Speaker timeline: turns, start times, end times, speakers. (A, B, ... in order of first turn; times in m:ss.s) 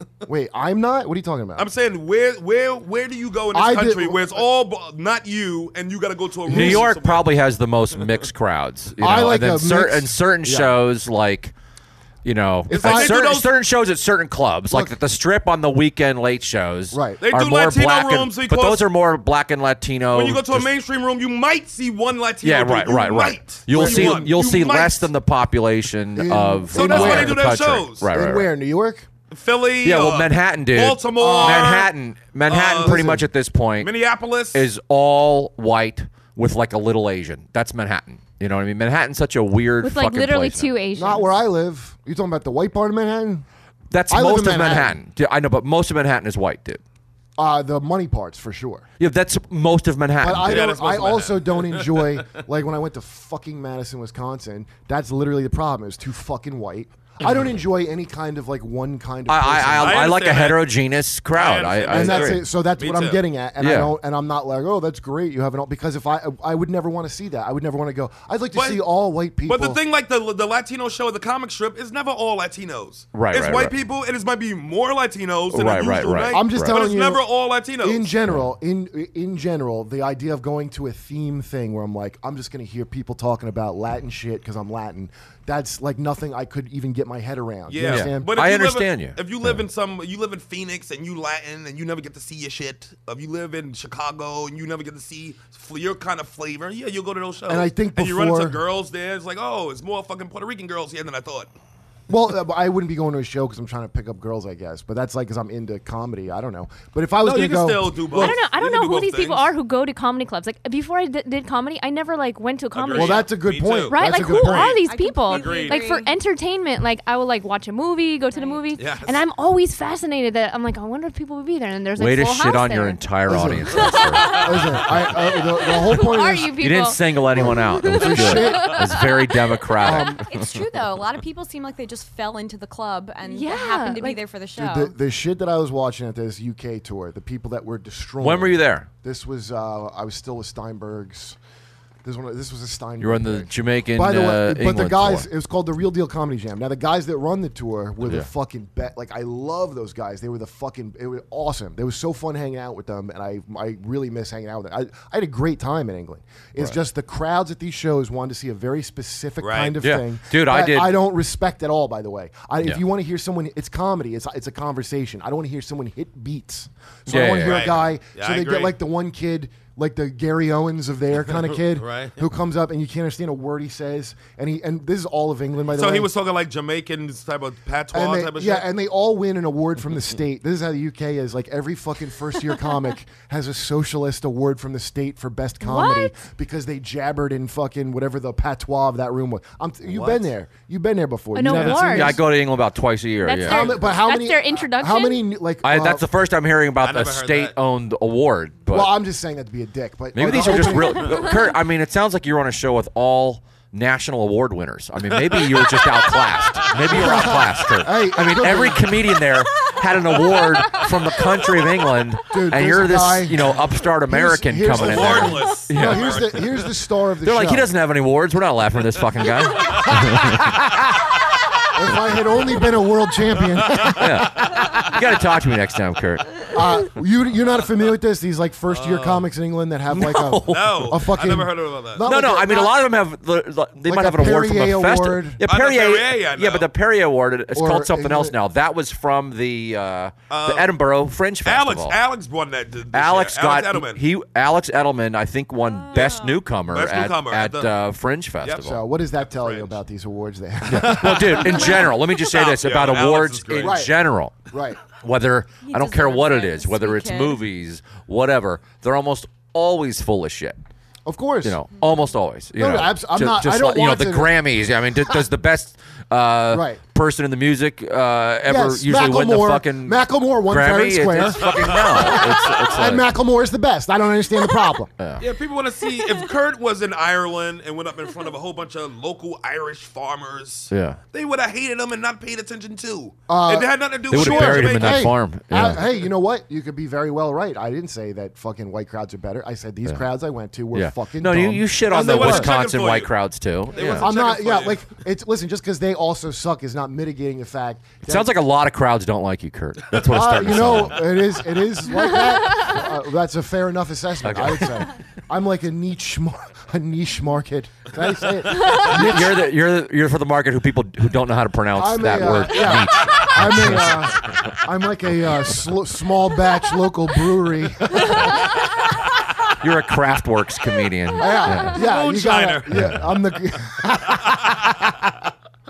0:00.2-0:01.7 A
0:01.6-0:07.3 B
0:03.5-0:04.4 A
0:06.4-0:11.5 C
0:06.5-0:06.9 A
0:09.0-0:10.8 A
0:12.2-0:20.7 C
0:12.7-0:13.2 A
0:12.7-0:13.5 B
0:14.7-0:15.0 A
0:16.9-0:17.2 A
0:17.2-0:18.9 B
0:20.1-0:25.1 B
0:22.4-0:28.5 C
0:23.7-0:24.4 A
0:26.2-0:29.1 A
0:26.7-0:28.1 B
0:29.3-0:31.9 B
0:29.8-0:33.9 C
0:31.2-0:31.9 A
0:32.4-0:33.0 B
0:32.8-0:33.3 A
0:33.8-0:34.7 B
0:34.5-0:40.7 C
0:39.8-0:41.3 D
0:40.9-0:43.4 A
0:43.9-0:46.8 C
0:44.1-0:45.0 A
0:47.4-0:48.9 A
0:49.0-0:50.7 C
0:50.2-1:00.1 A
0:50.4-0:52.2 B
0:59.3-1:02.4 C
0:59.8-1:00.7 B
1:01.3-1:03.2 B
1:01.9-1:09.8 A
1:03.6-1:03.9 C
1:08.5-1:08.8 B
1:09.4-1:18.1 B
1:13.1-1:13.7 C
1:15.5-1:16.8 C
1:16.3-1:17.2 A
1:17.8-1:28.4 A
1:27.7-1:41.5 B
1:27.9-1:29.6 C
1:37.4-1:38.6 A
1:42.1-1:48.4 A
1:47.2-1:49.5 B
1:48.1-1:53.4 D
1:52.7-1:55.9 B
1:52.9-1:54.8 A
1:53.9-2:03.1 D
1:54.8-1:56.1 E
1:58.3-1:58.7 E
1:58.8-1:59.2 B
2:02.0-2:04.5 C
2:03.3-2:06.5 A
2:03.7-2:09.8 D
2:06.6-2:10.6 C
2:07.3-2:09.0 A
2:09.8-2:14.9 E
2:09.8-2:10.2 A
2:13.2-2:14.2 D
2:14.6-2:21.4 A
2:18.2-2:18.9 C
2:22.0-2:56.1 A
2:23.0-2:25.2 C
2:39.4-2:39.8 B
2:39.8-2:40.9 C
2:47.1-2:47.7 C
2:47.4-2:48.7 B
2:51.6-2:52.2 B
2:55.7-2:58.7 B
2:57.9-3:12.2 A
3:05.6-3:06.2 D
3:09.9-3:10.2 B
3:11.3-3:12.2 D
3:11.5-3:13.9 C
3:13.2-3:15.2 D
3:13.4-3:16.0 A
3:15.6-3:18.9 C
3:16.8-3:17.5 B
3:18.7-3:21.4 A
3:20.1-3:36.2 C
3:25.4-3:25.8 B
3:26.9-3:29.0 A
3:32.3-3:37.7 A
3:34.7-3:36.7 B
3:37.2-3:40.7 C
3:39.7-3:40.8 A
3:41.7-3:44.8 A
3:43.6-3:44.8 B
3:44.0-3:46.6 C
3:46.5-3:52.8 A
3:48.7-3:49.3 B
3:49.9-3:50.9 C
3:50.5-3:52.1 B
3:52.0-4:02.0 C
3:53.9-3:55.4 A
3:55.4-3:56.7 B
3:57.5-3:58.4 A
4:00.3-4:00.8 B
4:01.4-4:04.0 B
4:02.9-4:08.8 C
4:05.6-4:06.4 E
4:06.7-4:07.7 B
4:08.4-4:08.7 B
4:08.6-4:11.8 A
4:09.2-4:09.7 B
4:10.7-4:20.6 C
4:10.7-4:13.9 B
4:13.6-4:13.9 A
4:14.5-4:14.8 A
4:15.6-4:17.4 E
4:21.0-4:21.6 A
4:21.4-4:33.1 C
4:22.6-4:24.3 A
4:26.5-4:26.8 A
4:28.4-4:34.9 A
4:31.3-4:32.6 B
4:35.2-4:45.1 B
4:40.7-4:41.0 C
4:43.3-4:52.5 A
4:44.1-4:45.8 C
4:50.7-4:54.1 C
4:51.9-4:53.1 B
4:53.7-4:54.9 B
4:54.0-4:58.3 A
4:58.0-5:01.3 C
5:00.1-5:09.5 A
5:02.0-5:02.4 D
5:04.2-5:04.9 C
5:08.8-5:14.6 C
5:11.7-5:18.5 A
5:19.6-5:21.8 C
5:21.2-5:25.1 A
5:21.7-5:22.7 B
5:22.7-5:23.1 C
5:24.1-5:24.6 B